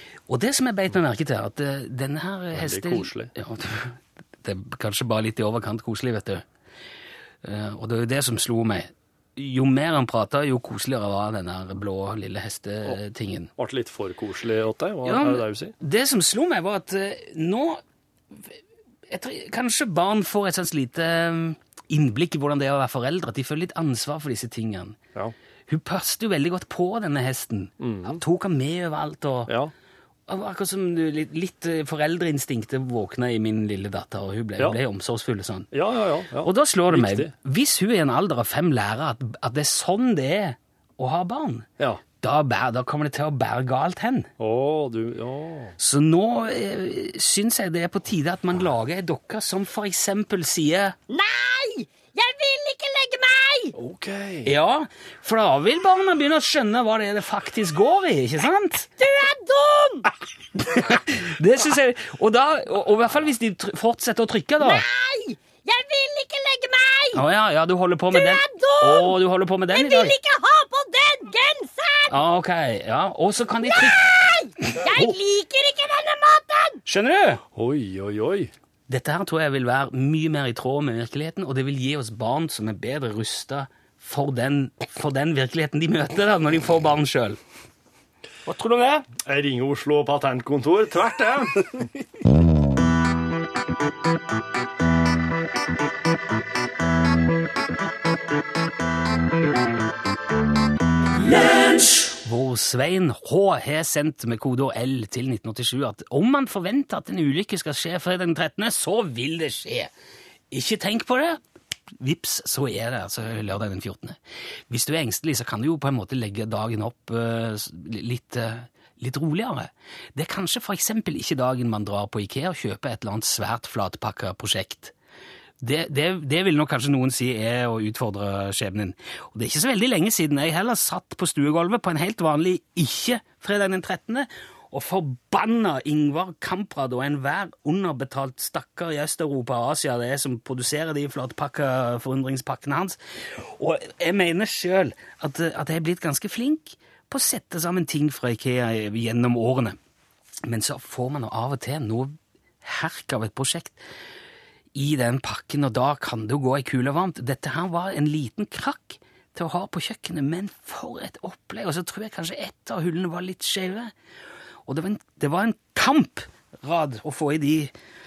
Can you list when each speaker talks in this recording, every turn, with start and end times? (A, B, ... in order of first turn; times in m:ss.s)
0:00.3-0:06.4 A
0:02.5-0:03.3 B
0:07.4-0:13.5 A
0:13.6-0:15.8 B
0:15.0-0:17.8 A
0:19.1-0:25.0 A
0:25.7-0:29.5 A
0:27.8-0:28.2 B
0:30.3-0:35.7 A
0:35.7-0:37.3 B
0:36.4-0:41.7 A
0:42.2-0:44.3 A
0:44.4-0:45.8 B
0:45.8-0:51.0 A
0:51.1-0:53.8 C
0:53.8-0:54.5 B
0:54.5-0:58.9 A
0:59.0-1:00.1 C
1:00.6-1:04.8 A
1:04.6-1:07.2 C
1:07.1-1:10.2 A
1:08.1-1:09.2 C
1:09.7-1:12.2 C
1:12.1-1:15.0 A
1:13.7-1:16.8 C
1:16.9-1:17.4 A
1:17.6-1:18.5 B
1:18.9-1:27.4 A
1:28.5-1:29.1 A
1:29.2-1:31.9 B
1:42.2-1:49.9 A
1:50.5-1:51.4 A
1:52.0-1:54.2 A
1:54.7-2:04.9 A
2:05.6-2:29.8 A
2:30.5-2:33.8 A
2:34.8-2:43.9 A
2:44.7-2:47.7 A